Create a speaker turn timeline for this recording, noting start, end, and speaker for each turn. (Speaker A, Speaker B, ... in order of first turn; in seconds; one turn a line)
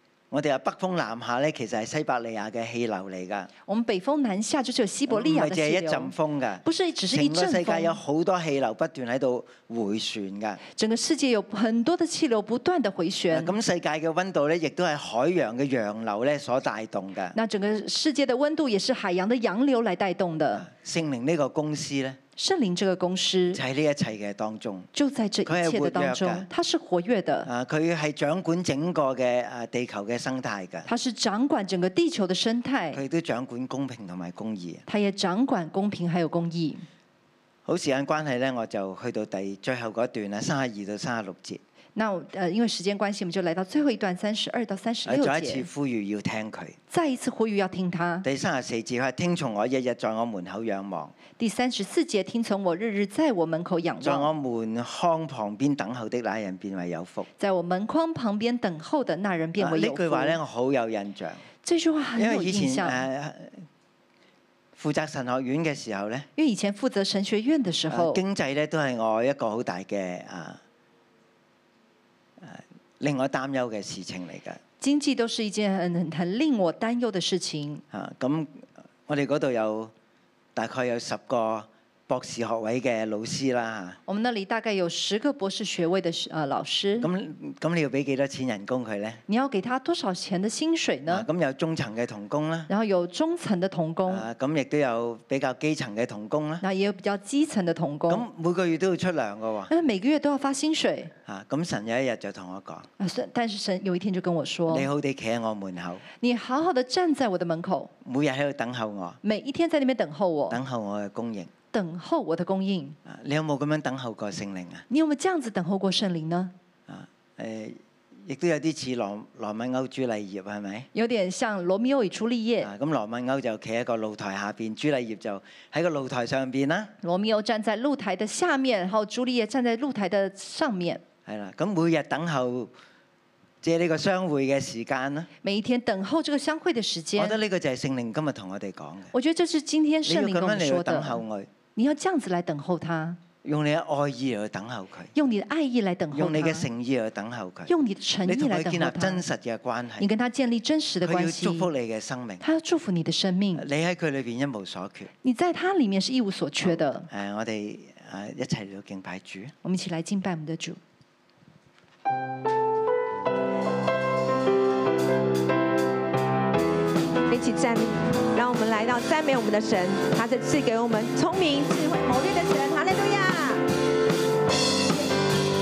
Speaker A: 0.3-3.5
Speaker B: 3.7-6.1
Speaker A: 5.1-10.6
Speaker B: 6.6-8.0
Speaker B: 10.8-13.5
Speaker A: 13.3-17.4
Speaker B: 17.3-20.6
Speaker A: 20.5-22.2
Speaker B: 22.4-23.6
Speaker A: 23.5-24.9
Speaker B: 24.9-27.5
Speaker A: 25.4-26.5
Speaker A: 27.4-30.9
Speaker B: 30.9-33.0
Speaker A: 32.9-34.8
Speaker B: 34.9-36.8
Speaker A: 37.6-41.6
Speaker B: 42.0-45.7
Speaker A: 45.0-46.8
Speaker B: 46.9-48.2
Speaker A: 48.2-51.1
Speaker B: 51.4-54.3
Speaker A: 54.0-57.3
Speaker B: 57.4-60.4
Speaker A: 59.6-61.4
Speaker B: 61.6-63.0
Speaker A: 62.1-63.6
Speaker A: 64.8-66.3
Speaker B: 66.3-68.2
Speaker A: 67.9-70.6
Speaker A: 72.4-74.6
Speaker B: 74.8-77.8
Speaker A: 77.9-79.9
Speaker A: 80.5-84.0
Speaker B: 84.1-87.1
Speaker A: 87.0-89.2
Speaker B: 89.3-91.3
Speaker A: 91.1-92.7
Speaker B: 92.7-94.2
Speaker A: 94.1-96.6
Speaker B: 96.6-98.2
Speaker A: 98.1-99.7
Speaker B: 99.7-101.1
Speaker A: 101.2-102.9
Speaker B: 103.0-104.9
Speaker A: 104.7-106.0
Speaker B: 106.2-107.9
Speaker A: 108.0-109.2
Speaker B: 109.2-110.6
Speaker A: 110.5-111.5
Speaker B: 111.7-113.0
Speaker A: 113.0-114.8
Speaker B: 114.9-116.5
Speaker A: 116.9-120.9
Speaker B: 120.9-122.7
Speaker A: 122.6-126.9
Speaker B: 127.0-131.0
Speaker A: 131.2-132.7
Speaker A: 133.6-135.3
Speaker B: 135.4-137.4
Speaker A: 137.2-139.1
Speaker B: 139.1-141.2
Speaker A: 140.0-141.5
Speaker B: 141.8-143.2
Speaker A: 143.4-145.1
Speaker B: 145.1-146.7
Speaker A: 146.1-147.7
Speaker B: 147.7-149.2
Speaker A: 148.2-150.1
Speaker B: 150.0-151.7
Speaker A: 151.0-152.4
Speaker B: 152.4-153.6
Speaker A: 153.5-155.1
Speaker B: 155.2-157.1
Speaker A: 156.6-159.5
Speaker B: 159.6-160.8
Speaker C: 167.3-173.6